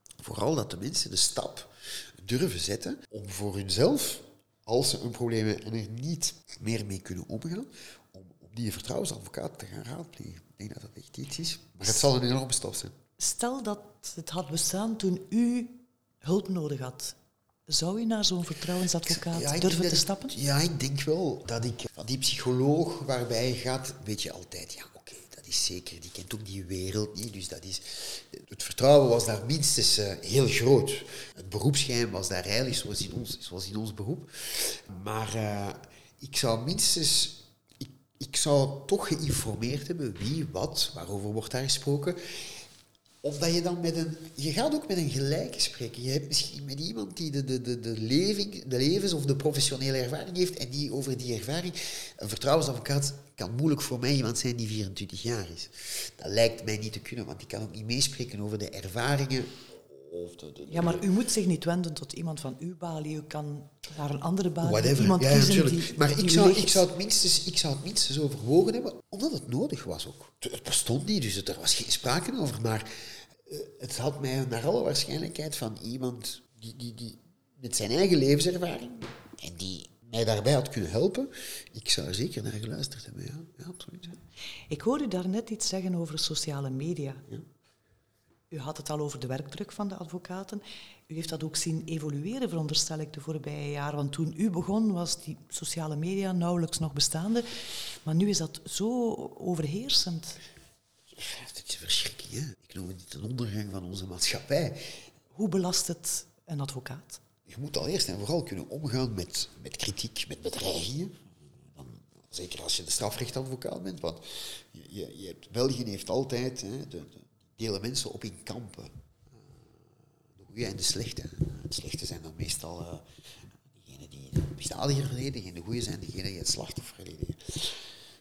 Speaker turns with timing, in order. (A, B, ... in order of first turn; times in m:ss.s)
0:00.2-0:13.0 A
0:13.2-0:17.2 B
0:17.7-0:20.4 B
0:19.1-0:42.6 A
0:43.2-1:01.0 A
1:00.7-1:06.8 B
1:04.6-1:24.2 A
1:24.7-1:27.2 B
1:28.5-1:37.5 B
1:38.0-1:40.4 B
1:41.1-1:44.8 A
1:45.3-1:47.2 B
1:47.5-1:51.2 A
1:51.7-1:58.9 A
2:00.4-2:03.1 A
2:03.7-2:07.9 A